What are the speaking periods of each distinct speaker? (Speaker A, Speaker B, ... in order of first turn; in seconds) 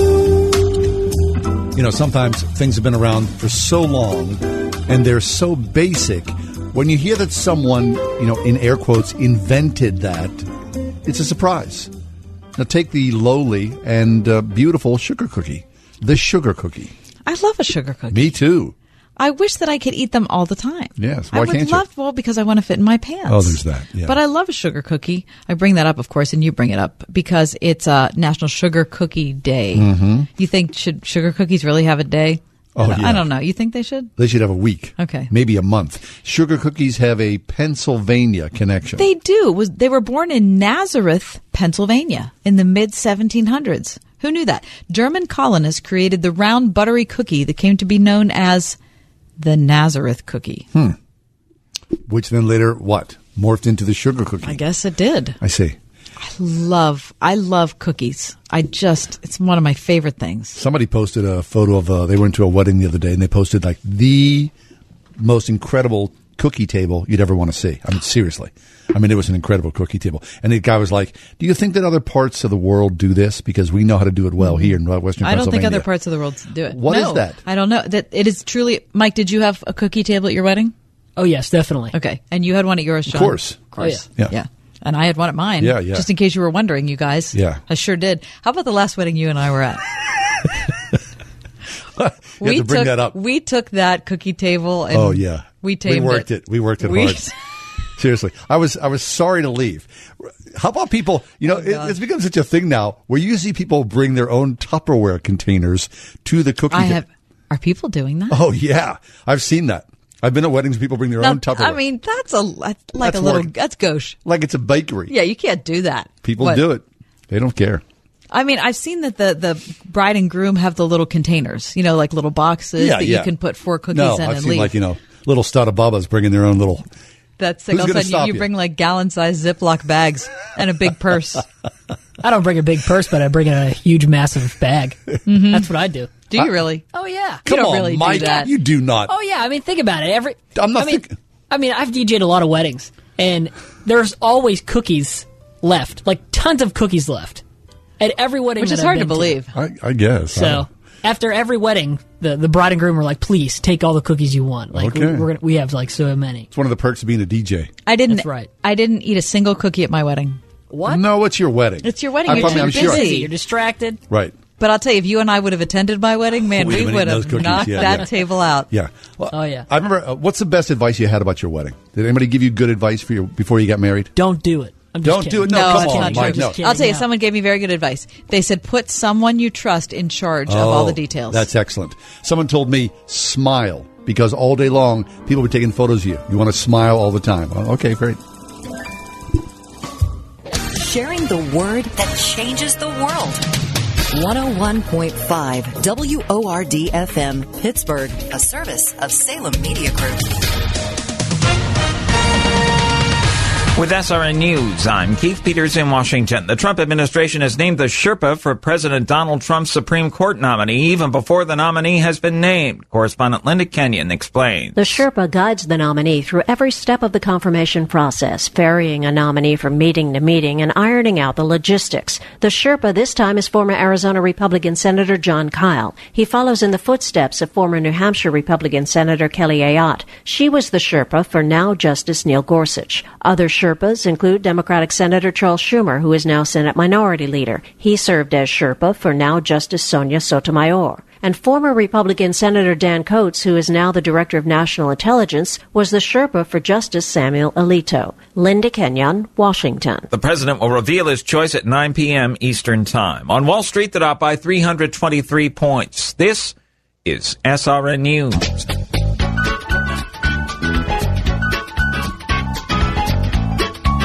Speaker A: 1.7-10.4, 11.0-11.9, 12.6-16.9, 18.1-18.7, 21.0-21.8, 23.3-24.1, 29.7-30.3, 32.8-33.3, 34.2-39.0, 52.1-54.6, 55.4-55.8, 60.5-64.5, 65.2-75.9, 76.7-77.4, 83.1-84.3, 85.6-86.0, 87.3-87.6, 92.0-93.2, 94.9-97.3, 98.0-107.0, 108.3-111.8, 113.0-113.5, 114.2-115.1, 116.2-117.8, 122.8-123.3, 123.9-126.8, 127.7-128.5, 137.4-139.1, 140.5-141.1, 149.5-150.6, 154.7-155.3, 156.5-157.7, 160.8-163.1, 164.1-164.3, 166.5-168.1, 168.7-174.1, 175.0-176.6, 180.5-188.2
Speaker B: 17.2-18.4, 19.2-34.1, 35.0-35.3, 39.0-48.8, 49.4-50.6, 54.4-55.4, 56.2-60.6, 74.4-80.7, 81.9-89.8, 92.4-96.3, 96.8-97.3, 101.5-102.0, 106.7-108.4, 111.2-114.2, 115.1-116.6, 118.3-124.7, 127.4-131.4, 135.2-135.7, 136.3-136.8, 137.4-138.5, 148.6-149.5, 157.8-160.4, 161.8-163.3, 164.6-168.7, 175.5-181.5
Speaker C: 81.2-81.9, 132.2-136.1, 136.9-137.4, 139.1-147.4, 148.0-149.4, 150.3-156.5, 158.1-158.5, 160.7-161.1, 162.2-164.0, 167.4-168.0, 169.3-169.7, 174.2-177.1
Speaker D: 190.7-193.4, 194.1-200.2
Speaker E: 203.8-214.9, 250.1-256.5, 257.0-258.5
Speaker F: 214.8-250.1